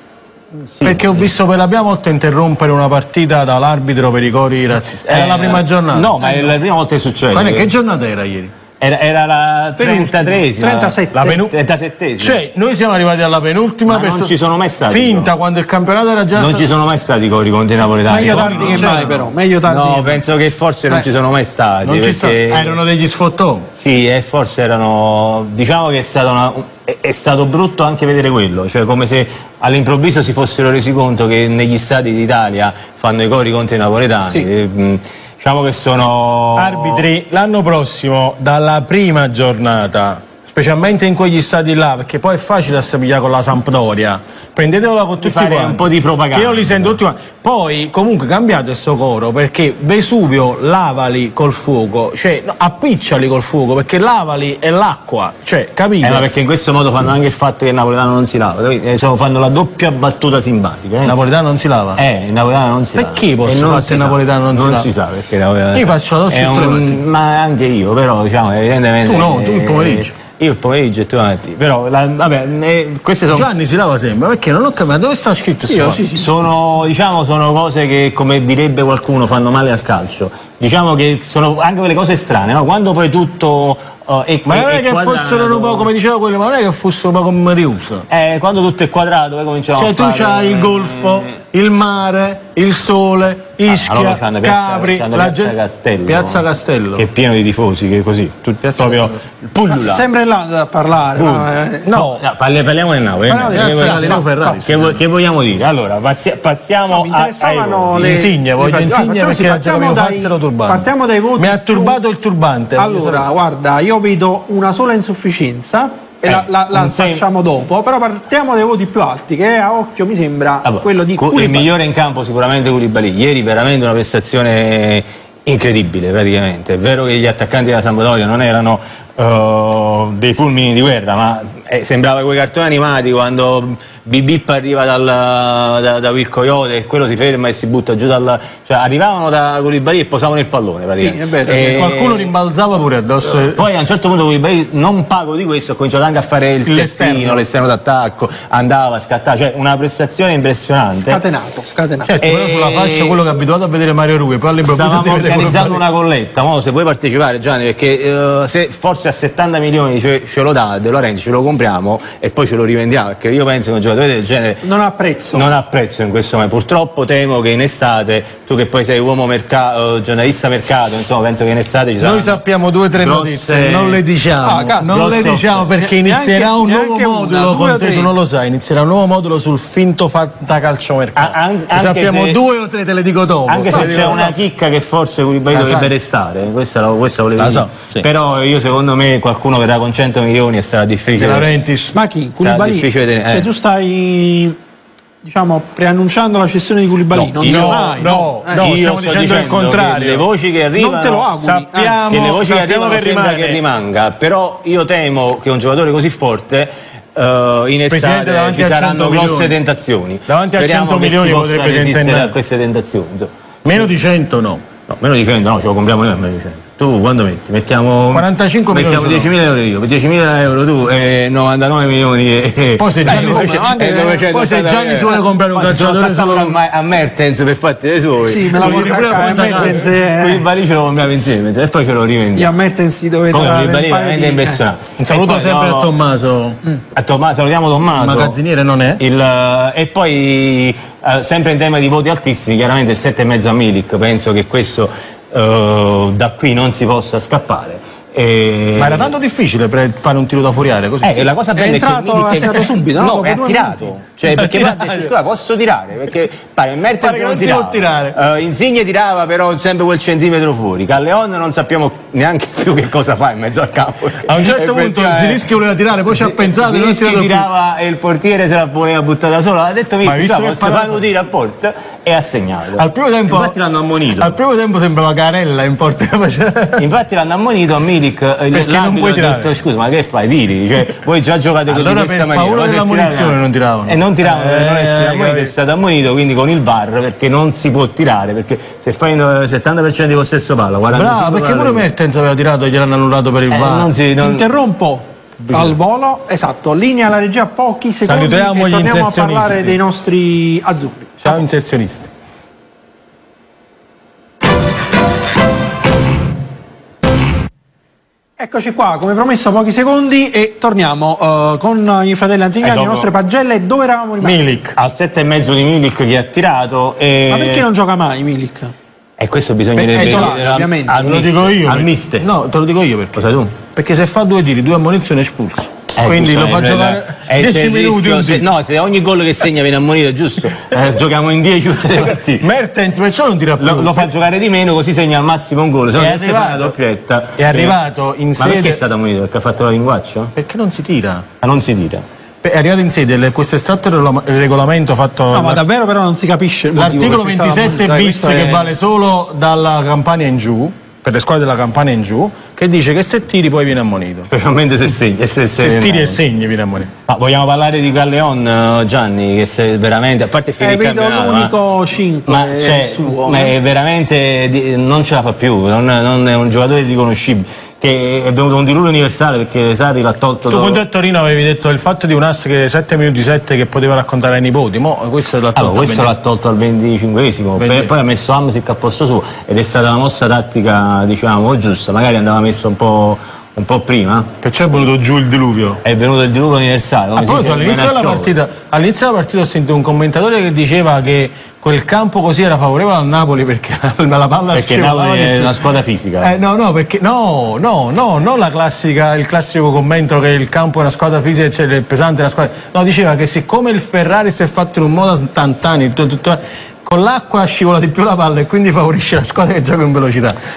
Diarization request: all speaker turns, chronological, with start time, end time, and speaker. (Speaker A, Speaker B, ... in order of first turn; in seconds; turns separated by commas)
Speaker A: 0.6-1.3, Speaker B: 0.8-6.2, Speaker A: 5.1-7.7, Speaker B: 7.3-8.5, Speaker A: 8.8-12.4, Speaker C: 9.8-11.4, Speaker B: 11.1-11.5, Speaker B: 12.2-14.3, Speaker A: 13.9-15.3, Speaker B: 14.9-16.6, Speaker A: 16.3-22.8, Speaker C: 18.1-20.2, Speaker B: 18.2-19.2, Speaker B: 21.8-23.7, Speaker A: 23.7-37.1, Speaker B: 36.5-56.2, Speaker A: 45.2-47.0, Speaker A: 56.0-61.1, Speaker B: 61.0-62.0, Speaker A: 62.0-73.5, Speaker B: 63.0-64.9, Speaker B: 65.7-67.0, Speaker B: 69.0-70.1, Speaker B: 73.3-76.0, Speaker C: 75.7-76.3, Speaker A: 76.1-85.9, Speaker B: 84.5-88.0, Speaker A: 88.1-91.3, Speaker B: 89.8-95.5, Speaker A: 93.7-96.4, Speaker B: 96.0-97.0, Speaker A: 96.9-100.0, Speaker B: 98.7-99.2, Speaker C: 99.7-101.9, Speaker A: 101.2-108.2, Speaker B: 101.8-102.2, Speaker C: 103.3-104.2, Speaker B: 103.5-105.0, Speaker C: 106.9-112.0, Speaker B: 108.0-113.2, Speaker C: 112.8-121.7, Speaker A: 116.2-117.2, Speaker A: 120.6-142.3, Speaker C: 141.0-141.8, Speaker B: 141.6-143.6, Speaker A: 143.3-151.2, Speaker B: 146.7-147.4, Speaker C: 151.0-152.1, Speaker B: 152.1-155.8, Speaker A: 152.2-153.2, Speaker A: 154.6-164.6, Speaker C: 164.6-165.4, Speaker A: 165.3-172.4, Speaker B: 172.0-184.3, Speaker A: 173.0-174.0, Speaker C: 174.4-175.2, Speaker A: 174.8-175.7, Speaker C: 175.8-178.1, Speaker A: 181.1-182.4, Speaker A: 183.5-191.5, Speaker C: 183.7-184.2, Speaker B: 185.5-185.9, Speaker B: 187.4-188.0, Speaker B: 191.2-191.9, Speaker C: 191.9-194.6, Speaker A: 192.4-193.5, Speaker C: 195.2-198.7, Speaker A: 197.1-201.3, Speaker B: 197.4-200.2, Speaker C: 200.7-202.0, Speaker B: 201.4-203.6, Speaker A: 202.1-213.9, Speaker B: 207.9-209.5, Speaker B: 210.3-212.3, Speaker B: 213.6-214.6, Speaker A: 214.9-232.5, Speaker B: 218.1-219.3, Speaker B: 222.8-226.6, Speaker C: 223.1-224.3, Speaker C: 228.2-230.4, Speaker B: 228.5-229.9, Speaker C: 232.3-234.6, Speaker A: 233.3-235.9, Speaker B: 235.0-236.6, Speaker A: 236.9-238.4, Speaker B: 237.9-239.0, Speaker A: 239.0-249.2, Speaker B: 248.8-251.3, Speaker A: 251.0-265.5, Speaker C: 251.5-253.8, Speaker B: 254.3-255.1, Speaker B: 257.0-258.1, Speaker B: 264.2-267.5, Speaker A: 266.1-274.4, Speaker B: 270.0-271.0, Speaker B: 272.8-273.5, Speaker B: 274.2-276.8, Speaker A: 276.8-291.9, Speaker B: 278.5-279.5, Speaker B: 281.7-285.5, Speaker B: 290.9-293.9, Speaker A: 293.5-294.4, Speaker C: 294.2-301.4, Speaker B: 295.4-295.7, Speaker B: 298.1-299.8, Speaker B: 301.2-302.1, Speaker C: 308.4-314.5, Speaker A: 312.6-313.1, Speaker B: 314.2-314.8, Speaker A: 314.8-317.6, Speaker C: 317.3-318.7, Speaker A: 319.2-322.3, Speaker C: 319.8-321.0, Speaker B: 319.9-320.4, Speaker B: 321.0-328.4, Speaker A: 323.1-323.6, Speaker A: 325.9-332.4, Speaker B: 331.9-334.1, Speaker A: 333.6-337.8, Speaker B: 335.9-336.7, Speaker B: 337.4-338.8, Speaker A: 338.4-340.3, Speaker B: 340.4-341.3, Speaker A: 341.4-342.0, Speaker B: 342.4-345.6, Speaker C: 345.3-348.7, Speaker B: 346.8-354.3, Speaker A: 354.3-356.2, Speaker B: 355.6-356.9, Speaker A: 357.1-361.5, Speaker C: 360.6-363.5, Speaker A: 362.2-370.8, Speaker B: 370.5-376.1, Speaker A: 375.5-384.3, Speaker B: 377.6-377.9, Speaker B: 384.4-385.8, Speaker A: 385.8-388.3, Speaker B: 387.2-395.6, Speaker A: 394.5-396.4, Speaker B: 396.2-410.4